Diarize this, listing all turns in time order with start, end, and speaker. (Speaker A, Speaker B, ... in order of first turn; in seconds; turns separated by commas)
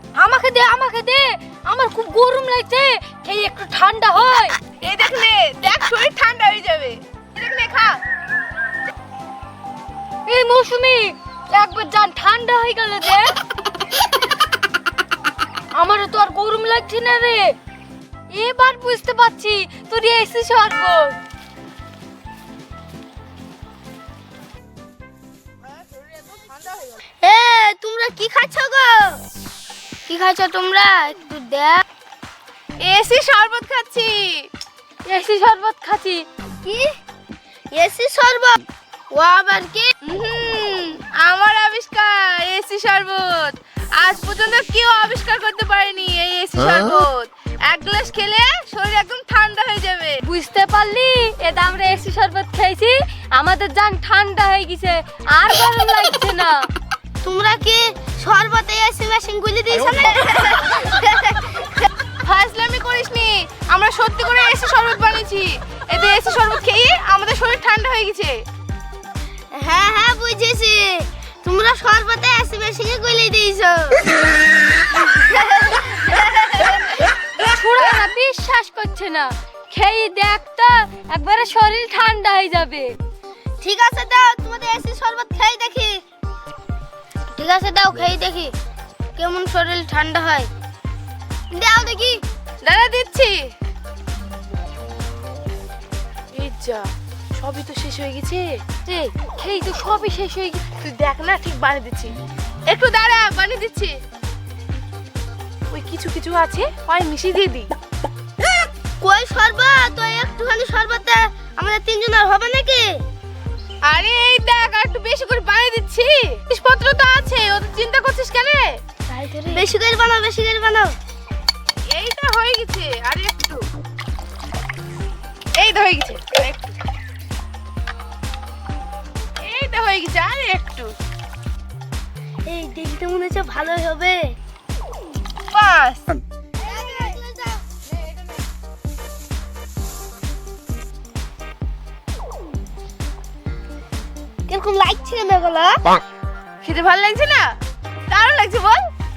Speaker A: 0.1-4.6, Speaker B: 4.8-8.0, Speaker A: 10.2-13.3, Speaker A: 15.7-17.5, Speaker A: 18.3-21.2, Speaker B: 26.2-27.0, Speaker C: 27.2-29.2, Speaker C: 30.1-31.8, Speaker B: 32.8-34.5, Speaker A: 35.0-36.2, Speaker C: 36.6-37.0, Speaker C: 37.7-39.9, Speaker B: 40.0-50.2, Speaker A: 50.2-56.6, Speaker C: 57.2-61.7, Speaker B: 62.2-68.3, Speaker C: 69.5-74.2, Speaker C: 75.4-76.8, Speaker A: 77.4-82.9, Speaker C: 83.6-86.0, Speaker C: 87.3-88.5, Speaker C: 89.2-90.5, Speaker C: 91.5-92.2, Speaker B: 92.6-93.4, Speaker B: 96.3-98.5, Speaker A: 98.8-100.6, Speaker B: 100.8-102.1, Speaker B: 102.7-103.9, Speaker B: 105.7-107.7, Speaker C: 109.0-113.0, Speaker B: 113.8-118.8, Speaker C: 119.1-120.9, Speaker B: 121.9-123.6, Speaker B: 125.6-126.7, Speaker B: 129.4-130.9, Speaker C: 132.5-134.4, Speaker B: 135.5-136.0, Speaker C: 136.6-137.6, Speaker B: 136.6-137.2, Speaker C: 144.5-146.0, Speaker B: 146.6-147.6, Speaker B: 148.1-148.9